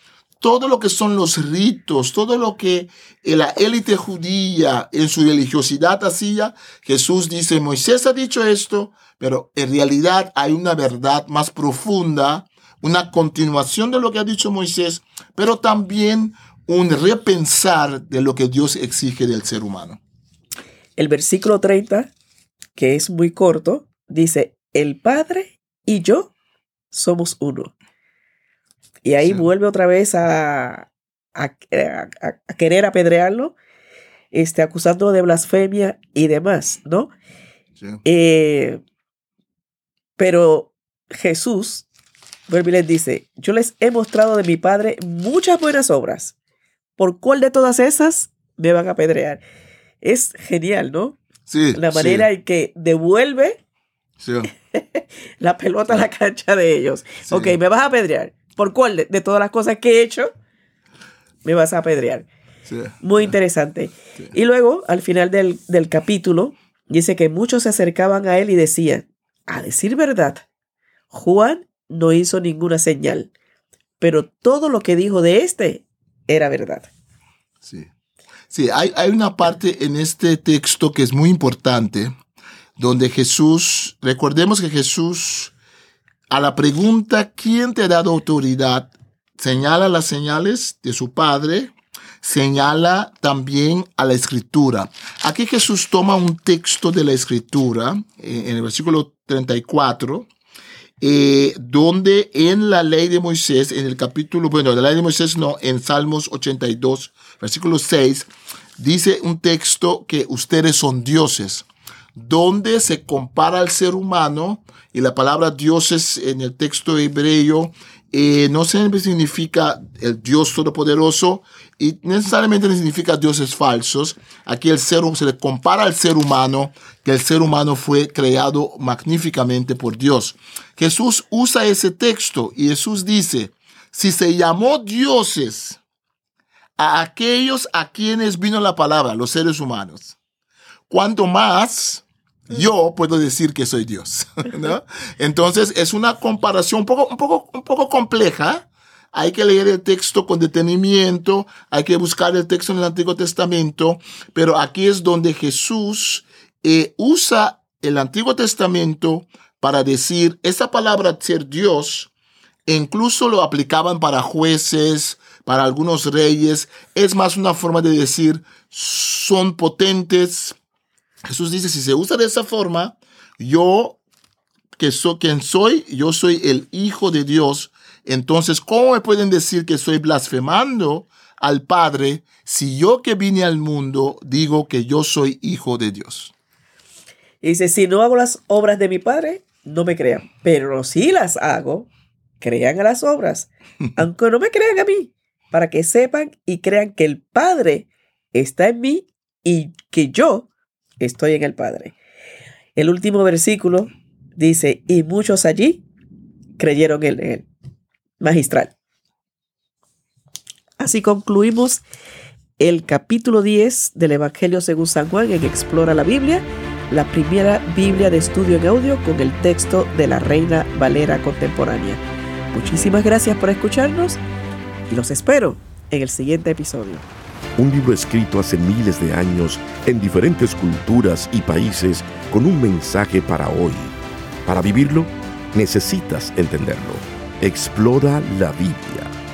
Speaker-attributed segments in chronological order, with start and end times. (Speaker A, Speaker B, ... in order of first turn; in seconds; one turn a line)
Speaker A: 0.4-20.0
Speaker B: 21.0-22.1
Speaker B: 22.8-26.3
Speaker B: 26.9-27.7
Speaker B: 29.0-33.6
Speaker B: 34.3-37.1
Speaker B: 38.0-38.8
Speaker B: 40.2-41.9
Speaker B: 42.5-46.4
Speaker B: 47.0-49.4
Speaker B: 50.0-51.2
Speaker A: 51.5-52.3
Speaker B: 51.7-53.6
Speaker A: 54.2-54.5
Speaker B: 54.7-60.3
Speaker A: 57.3-57.6
Speaker B: 61.5-62.3
Speaker A: 62.7-63.3
Speaker B: 63.0-70.5
Speaker B: 71.1-73.3
Speaker B: 74.0-76.9
Speaker A: 77.6-77.9
Speaker A: 78.5-82.1
Speaker A: 82.8-85.5
Speaker A: 86.3-100.3
Speaker A: 101.0-135.8
Speaker A: 136.8-140.2
Speaker A: 140.9-162.1
Speaker A: 162.7-170.6
Speaker A: 171.2-174.0
Speaker A: 174.8-186.3
Speaker B: 187.4-191.9
Speaker B: 192.4-200.5
Speaker B: 201.0-202.0
Speaker B: 202.8-205.8
Speaker B: 206.6-207.5
Speaker B: 208.2-208.7
Speaker B: 210.8-211.8
Speaker B: 212.6-224.2
Speaker B: 224.9-227.1
Speaker C: 227.6-233.9
Speaker C: 234.5-239.1